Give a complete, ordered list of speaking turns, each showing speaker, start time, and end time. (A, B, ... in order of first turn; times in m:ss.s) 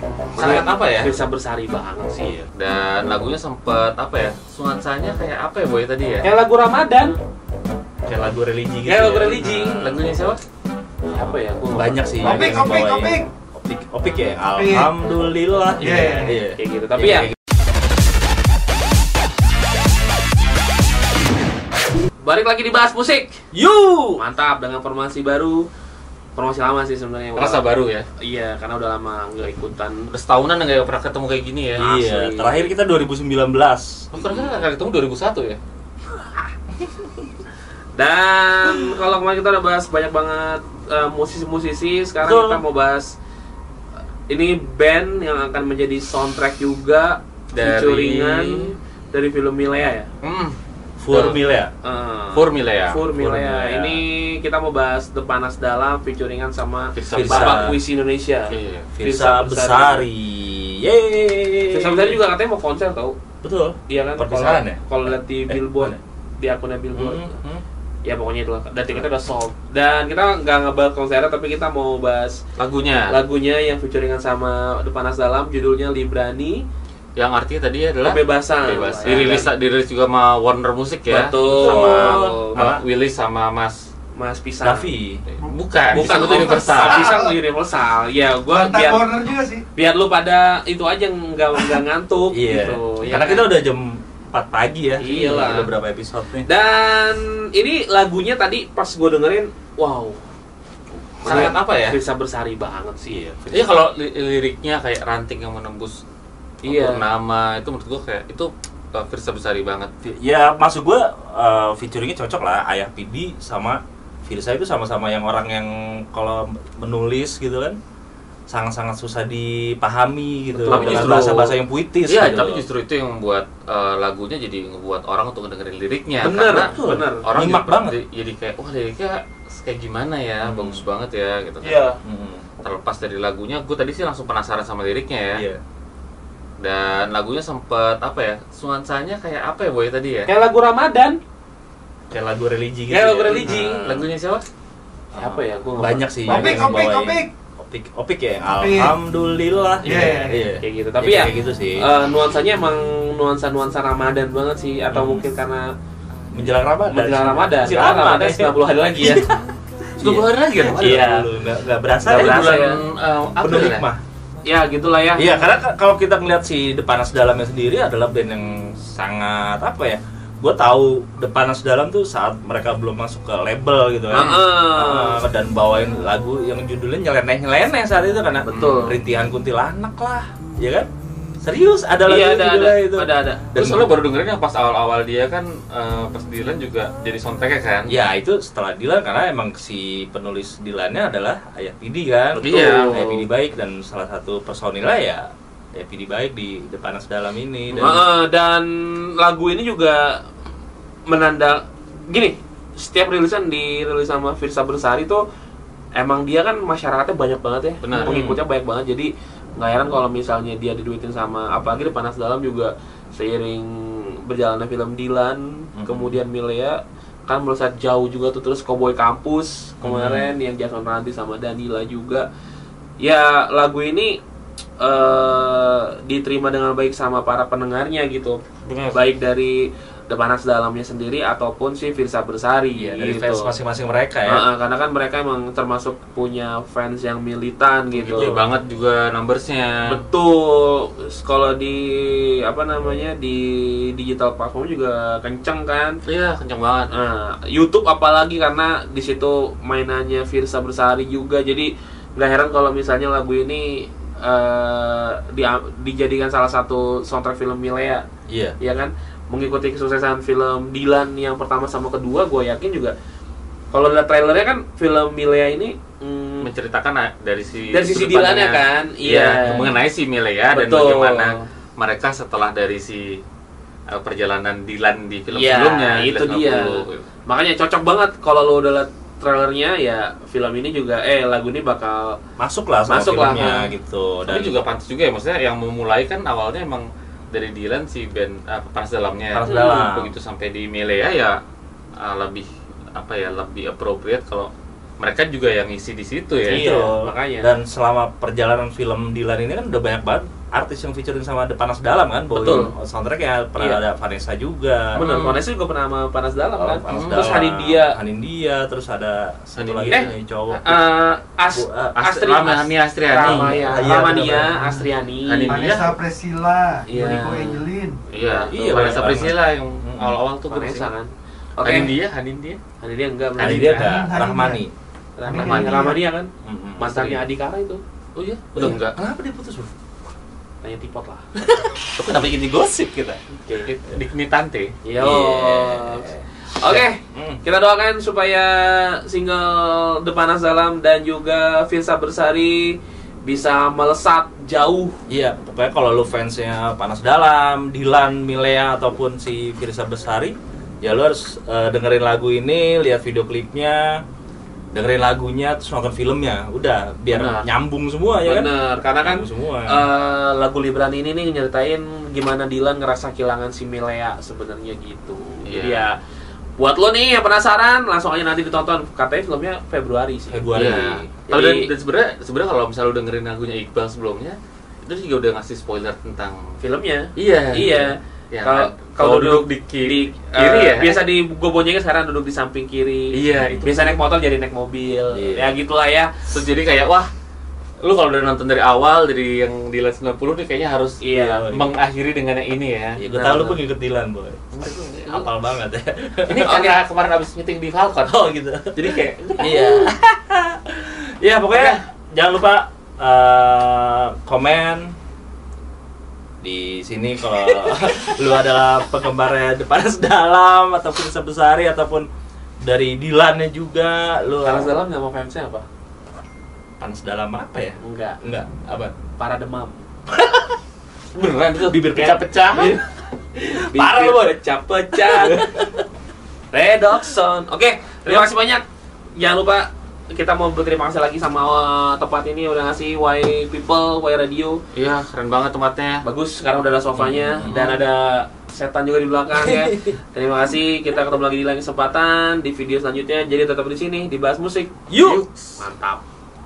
0:00.3-0:02.4 A
0:00.4-0:01.1 B
0:02.6-0:06.3 B
0:06.2-0:07.2 A
0:08.0-0:09.9 C
0:08.8-0:09.9 A
0:09.5-0:10.4 B
0:11.1-0:12.6 A
0:11.7-0:17.3 C
0:12.2-0:13.3 D
0:14.5-0:14.9 D
0:15.8-0:16.3 D
0:15.8-0:17.3 A
0:22.2-0:23.4 A
0:23.5-0:24.2 C
0:24.2-0:25.7 A
0:26.4-0:27.6 A
0:27.4-0:28.1 B
0:28.2-0:30.1 A
0:30.1-0:31.8 B
0:31.8-0:34.1 C
0:31.8-0:32.7 A
0:34.1-0:35.6 B
0:37.9-0:43.1 A
0:42.2-0:42.6 C
0:44.3-0:50.1 A
0:47.5-0:48.7 B
0:50.2-0:50.6 B
0:51.0-0:51.7 C
0:51.1-0:51.4 B
0:51.8-1:00.0 A
0:52.3-0:53.0 B
0:53.1-0:54.0 C
0:56.9-0:57.8 B
0:57.1-0:57.8 C
0:58.5-0:58.9 B
0:58.9-1:02.2 C
1:01.7-1:03.2 A
1:03.4-1:04.8 C
1:03.9-1:07.3 A
1:05.5-1:06.0 C
1:06.9-1:07.6 C
1:08.0-1:12.4 A
1:12.6-1:13.2 B
1:13.1-1:16.6 A
1:17.2-1:23.9 B
1:18.0-1:19.5 A
1:21.1-1:22.6 A
1:21.5-1:22.8 C
1:24.1-1:24.9 A
1:24.6-1:25.2 C
1:25.3-1:27.2 B
1:25.9-1:29.2 A
1:25.9-1:26.6 C
1:26.8-1:27.3 D
1:28.5-1:29.6 D
1:29.7-1:33.4 A
1:32.3-1:36.5 C
1:35.0-1:35.7 A
1:36.4-1:40.2 A
1:41.2-1:43.6 A
1:41.2-1:42.0 B
1:43.5-1:46.0 B
1:46.6-1:47.0 A
1:46.6-1:49.9 B
1:50.0-1:57.8 C
1:58.5-2:02.6 C
2:00.6-2:01.4 A
2:00.6-2:01.5 B
2:02.1-2:11.8 B
2:06.2-2:07.3 A
2:06.5-2:08.0 C
2:10.4-2:10.8 C
2:11.6-2:12.0 A
2:12.0-2:12.4 C
2:12.6-2:15.4 B
2:15.3-2:15.6 C
2:16.6-2:20.3 B
2:20.3-2:21.2 A
2:22.1-2:24.0 C
2:22.9-2:23.8 A
2:23.3-2:24.4 B
2:25.1-2:31.9 C
2:25.2-2:26.8 A
2:26.2-2:27.3 D
2:28.5-2:29.0 D
2:29.8-2:35.7 A
2:29.8-2:30.4 D
2:34.9-2:35.2 C
2:36.3-2:39.3 C
2:36.9-2:39.3 A
2:40.0-2:42.8 C
2:40.0-2:41.3 B
2:42.0-2:43.9 B
2:42.1-2:42.8 A
2:43.4-2:44.0 C
2:44.4-2:45.3 A
2:45.2-3:00.9 C
2:54.1-2:55.2 A
2:58.4-2:59.0 A
3:01.4-3:04.0 C
3:02.0-3:03.8 A
3:03.6-3:08.0 B
3:07.9-3:18.0 C
3:12.4-3:13.2 A
3:12.4-3:13.2 B
3:17.8-3:20.2 A
3:21.1-3:25.2 A
3:26.0-3:42.3 A
3:27.8-3:28.4 B
3:35.7-3:36.2 C
3:39.8-3:40.3 C
3:43.0-3:44.2 A
3:44.8-3:53.5 A
3:48.6-3:49.0 B
3:52.8-3:54.4 C
3:54.3-3:58.3 A
3:57.9-4:00.0 B
3:58.1-3:58.5 C
3:59.8-4:06.0 A
4:06.0-4:06.9 B
4:06.9-4:18.0 A
4:18.3-4:18.6 C
4:18.6-4:22.9 A
4:23.7-4:26.5 A
4:26.4-4:33.2 B
4:27.7-4:29.8 A
4:30.5-4:31.4 A
4:33.9-4:37.1 B
4:35.3-4:42.2 A
4:42.4-4:44.6 C
4:42.9-4:43.7 A
4:44.3-4:51.4 B
4:49.3-4:50.1 C
4:49.4-4:49.8 A
4:52.0-4:56.6 B
4:56.5-5:05.0 C
4:56.5-4:57.5 A
5:02.3-5:02.7 A
5:04.9-5:05.4 B
5:04.9-5:08.0 A
5:06.6-5:10.8 C
5:06.9-5:07.3 B
5:09.6-5:10.1 B
5:10.6-5:15.7 A
5:11.5-5:12.0 C
5:12.0-5:13.8 B
5:13.2-5:14.5 C
5:13.8-5:14.8 D
5:15.2-5:16.0 B
5:15.5-5:18.0 D
5:16.9-5:17.6 A
5:18.1-5:20.9 B
5:18.2-5:19.0 A
5:18.5-5:20.2 C
5:20.5-5:21.9 A
5:21.6-5:22.6 B
5:22.8-5:23.9 A
5:23.4-5:24.7 C
5:23.4-5:24.6 D
5:25.2-5:27.8 A
5:25.2-5:26.0 D
5:25.3-5:25.9 B
5:26.4-5:27.2 C
5:28.2-5:29.0 B
5:28.6-5:29.7 C
5:30.6-5:31.2 A
5:32.0-5:33.2 B
5:33.3-5:33.9 A
5:33.9-5:34.7 B
5:34.8-5:45.0 A
5:35.0-5:37.4 C
5:45.1-5:54.0 C
5:54.7-5:58.5 C
5:57.1-5:57.5 A
5:58.2-6:06.0 A
5:59.0-5:59.8 C
6:05.4-6:05.9 B
6:06.6-6:10.7 A
6:10.3-6:11.1 C
6:10.5-6:16.4 B
6:11.3-6:11.7 A
6:16.6-6:26.3 A
6:17.2-6:21.0 B
6:23.1-6:24.0 B
6:23.4-6:23.7 C
6:25.1-6:25.5 C
6:26.3-6:27.1 B
6:27.8-6:33.0 B
6:31.0-6:31.5 A
6:31.1-6:31.7 C
6:33.0-6:36.6 C
6:33.1-6:33.6 A
6:34.5-6:35.3 B
6:36.3-6:39.9 B
6:36.4-6:36.8 A
6:38.2-6:38.8 C
6:39.4-6:44.9 C
6:41.5-6:41.8 B
6:46.4-6:52.1 C
6:52.6-6:54.7 C
6:54.4-6:55.6 A
6:56.8-6:58.9 C
6:57.8-6:58.2 A
6:59.2-6:59.9 A
7:01.1-7:02.7 B
7:01.7-7:02.8 C
7:02.5-7:02.8 A
7:03.4-7:04.3 C
7:03.5-7:05.5 A
7:04.9-7:05.7 C
7:06.5-7:08.6 A
7:09.1-7:14.6 A
7:14.7-7:16.0 B
7:16.0-7:24.8 A
7:17.0-7:17.6 C
7:17.4-7:17.7 B
7:19.4-7:19.9 C
7:24.9-7:25.2 C
7:25.0-7:25.6 B
7:25.6-7:26.0 A